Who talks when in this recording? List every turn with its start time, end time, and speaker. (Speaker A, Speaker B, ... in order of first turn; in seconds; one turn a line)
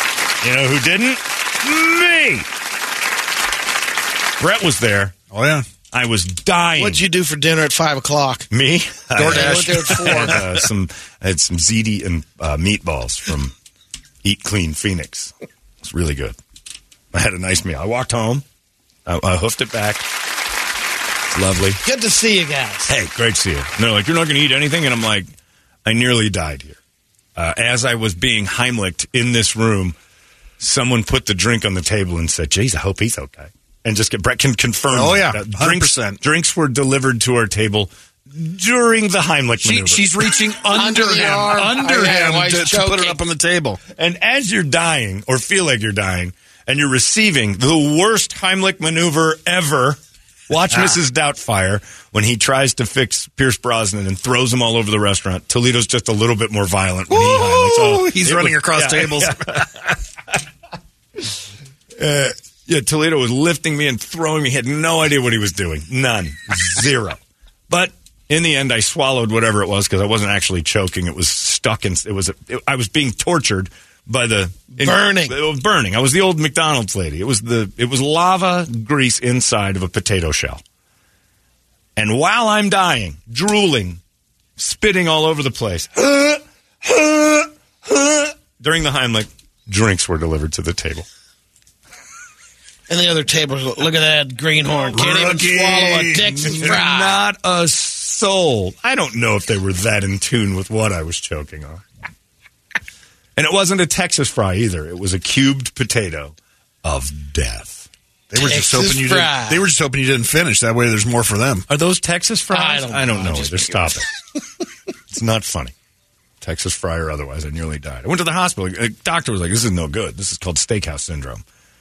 Speaker A: 0.4-2.5
Speaker A: 4.4-5.1
Speaker B: 5.3-5.7
Speaker A: 5.9-7.0
Speaker C: 6.8-8.5
Speaker A: 8.5-13.5
Speaker B: 9.2-10.5
Speaker C: 9.2-10.4
Speaker A: 14.2-16.4
Speaker A: 17.1-18.4
Speaker A: 19.1-20.1
Speaker A: 21.3-21.8
Speaker C: 21.8-22.9
Speaker A: 22.9-25.3
Speaker A: 25.9-26.8
Speaker A: 27.4-30.0
Speaker A: 30.6-40.1
Speaker B: 34.9-36.2
Speaker B: 39.6-43.8
Speaker C: 40.7-43.2
Speaker A: 44.0-60.0
Speaker B: 57.1-59.6
Speaker A: 62.0-80.6
Speaker C: 74.8-75.4
Speaker A: 82.0-84.0
Speaker A: 84.6-91.1
Speaker C: 92.9-97.2
Speaker B: 94.9-96.8
Speaker A: 96.3-101.8
Speaker A: 103.4-107.9
Speaker B: 108.3-111.7
Speaker C: 108.4-109.7
Speaker A: 111.7-114.1
Speaker C: 112.5-114.2
Speaker A: 115.1-115.7
Speaker A: 116.4-121.4